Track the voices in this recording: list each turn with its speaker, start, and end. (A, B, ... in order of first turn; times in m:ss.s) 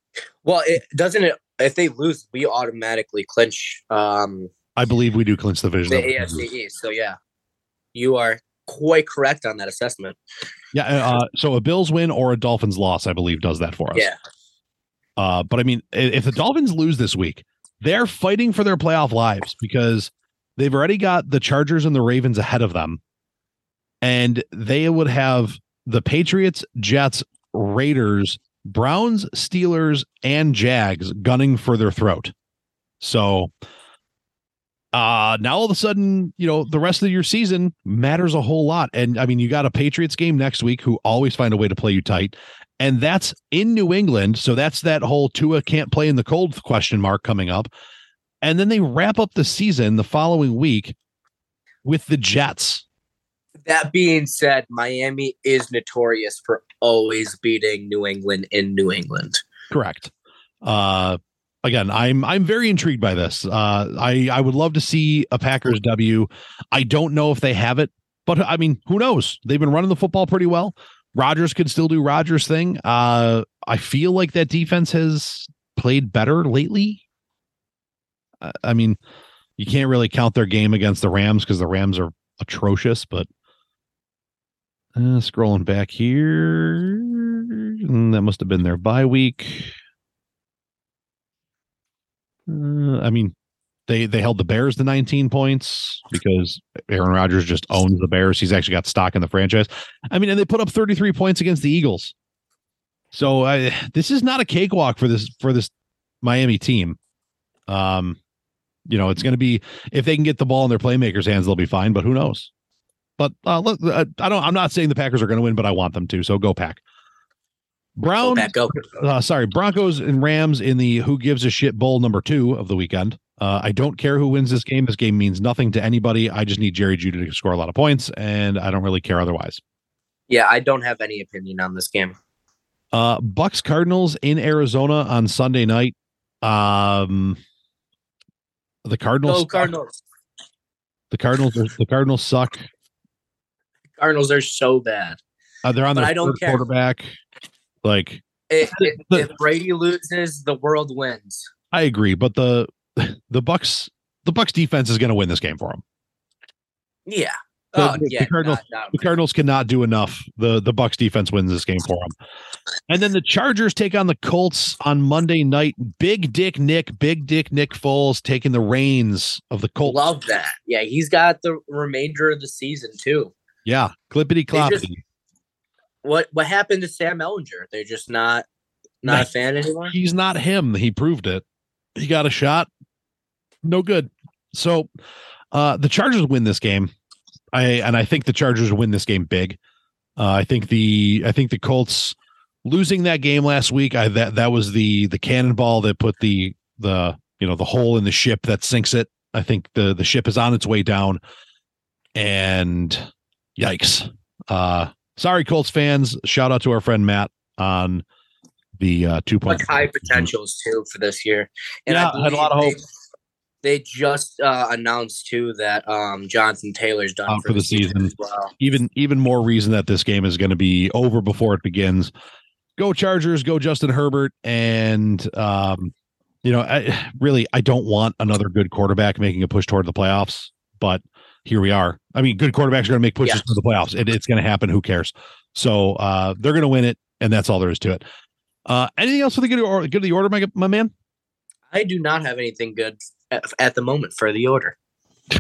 0:00.4-0:04.5 A
0:04.8-0:06.4 B
0:05.9-0:07.2 A
0:07.9-0:10.2 A
0:10.7-0:14.1 B
0:15.2-0:23.0 B
0:24.0-0:32.3 B
0:33.0-0:33.5 B
0:34.9-0:47.7 B
0:48.4-0:50.9 B
0:51.8-0:52.8 B
0:53.6-0:59.4 A
0:59.7-1:00.1 B
1:00.6-1:17.0 B
1:18.4-1:19.0 B
1:19.6-1:23.3 B
1:24.9-1:29.7 B
1:32.5-1:33.3 B
1:33.9-1:42.1 B
1:43.1-1:45.7 B
1:46.2-1:47.0 B
1:47.7-1:48.2 B
1:48.9-1:52.5 B
1:53.2-1:56.8 B
1:58.0-2:09.6 B
1:58.2-1:58.8 A
2:10.3-2:12.1 A
2:12.9-2:17.4 B
2:18.8-2:19.7 B
2:19.2-2:20.0 A
2:21.1-2:22.7 B
2:24.0-2:25.2 A
2:25.6-2:27.1 B
2:25.9-2:26.6 A
2:27.8-2:29.3 B
2:28.5-2:31.5 A
2:31.7-2:35.8 B
2:37.1-2:39.1 A
2:37.7-2:42.1 B
2:42.9-2:50.1 B
2:49.8-2:53.3 A
2:53.6-2:55.0 B
2:54.5-2:54.8 A
2:56.0-2:58.4 A
2:59.0-2:59.9 A
2:59.8-3:01.4 B
3:02.0-3:02.7 B
3:03.6-3:04.9 B
3:05.5-3:06.9 B
3:07.5-3:09.6 B
3:10.2-3:21.2 B
3:22.2-3:23.0 B
3:23.6-3:28.0 B
3:28.8-3:30.3 B
3:29.5-3:32.8 A
3:31.9-3:32.8 B
3:33.6-3:38.5 A
3:37.3-3:42.1 B
3:42.8-3:45.9 B
3:46.4-3:58.0 B
3:58.6-4:00.9 B
4:01.7-4:04.7 A